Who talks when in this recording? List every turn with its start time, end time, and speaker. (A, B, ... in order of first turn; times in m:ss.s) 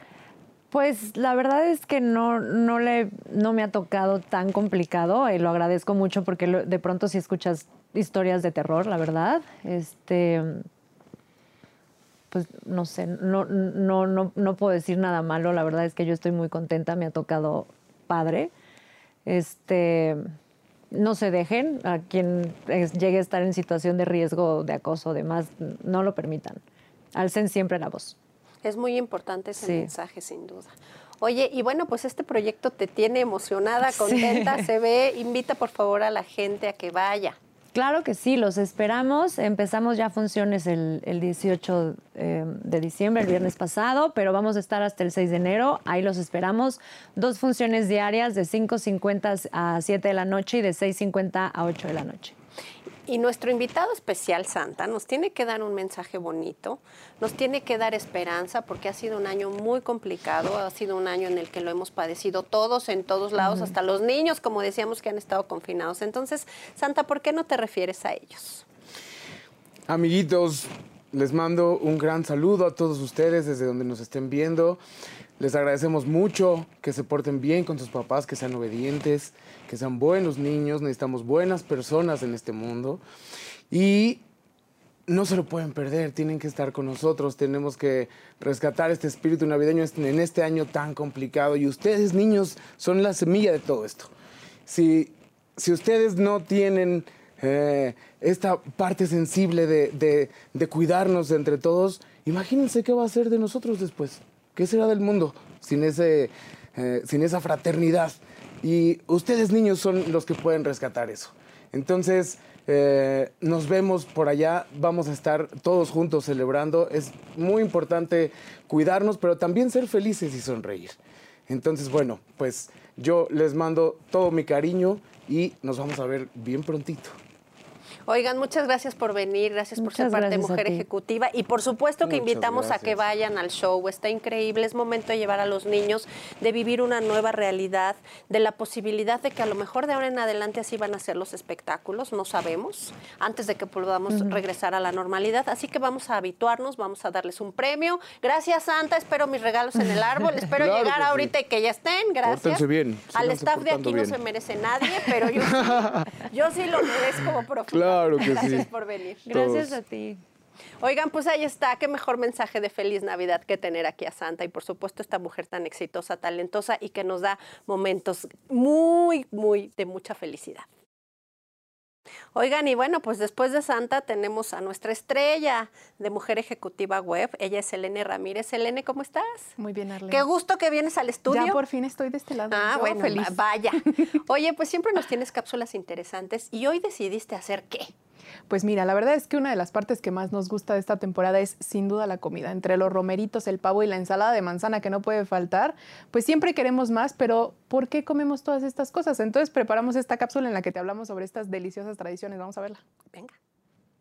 0:00.7-0:10.7 A
0:12.3-0:18.5 A
0:19.3-0:20.3 A
0:20.9-0:26.6 A
0:27.2-0:28.2 A
0:28.6-0:37.4 B
0:29.6-0:29.9 A
0:34.0-0:34.5 A
0:37.7-0:52.4 A
0:53.1-1:08.6 B
1:03.4-1:03.7 A
1:09.9-1:14.8 C
1:15.4-1:23.0 C
1:23.7-1:24.2 C
1:25.1-1:34.1 C
1:34.7-2:07.2 C
2:08.1-2:39.4 B
2:09.8-2:10.8 A
2:12.0-2:13.0 C
2:30.6-2:31.3 C
2:32.2-2:34.2 C
2:35.6-2:36.1 C
2:37.7-2:38.7 C
2:39.2-2:40.2 A
2:39.3-2:39.8 C
2:40.8-2:50.6 B
2:52.4-2:59.6 B
2:59.6-3:00.2 D
3:00.1-3:01.6 B
3:01.3-3:03.4 D
3:02.5-3:07.9 B
3:08.5-3:22.8 D